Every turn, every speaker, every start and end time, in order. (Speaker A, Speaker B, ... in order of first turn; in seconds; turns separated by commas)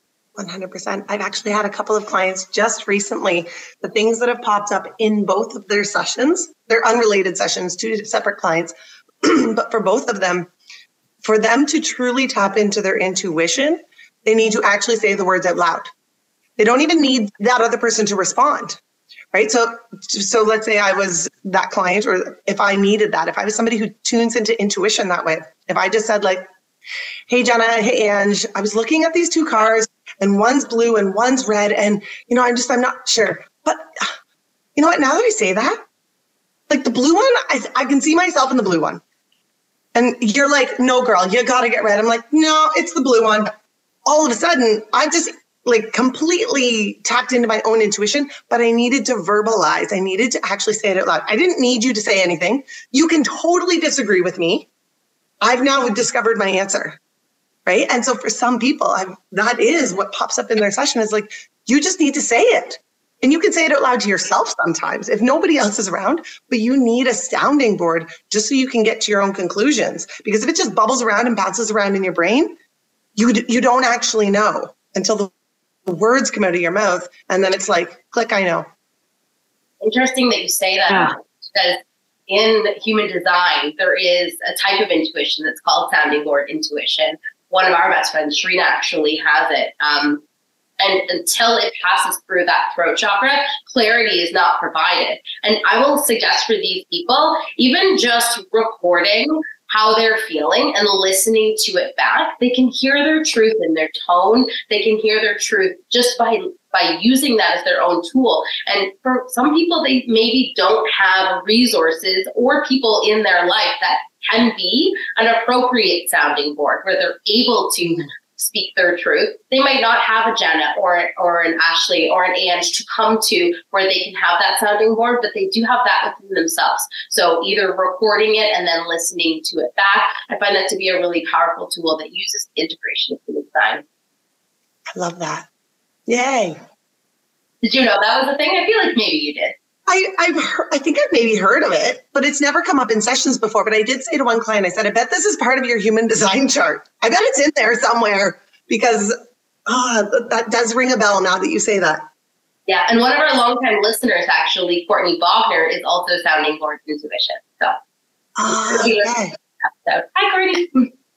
Speaker A: 0.4-10.5, Speaker A: 11.2-15.9, Speaker A: 16.6-18.8, Speaker A: 19.3-26.5, Speaker A: 27.3-34.1, Speaker A: 34.8-35.8, Speaker A: 36.7-39.0, Speaker A: 40.0-43.5, Speaker A: 44.1-54.7, Speaker A: 55.4-57.0, Speaker A: 57.7-72.5, Speaker A: 73.2-75.3, Speaker A: 75.9-78.7, Speaker B: 79.8-90.2, Speaker B: 90.8-133.8, Speaker A: 135.0-135.5, Speaker A: 136.1-136.6, Speaker B: 137.6-139.5, Speaker A: 139.9-152.1, Speaker B: 152.7-157.8, Speaker A: 158.4-159.3, Speaker B: 158.5-160.9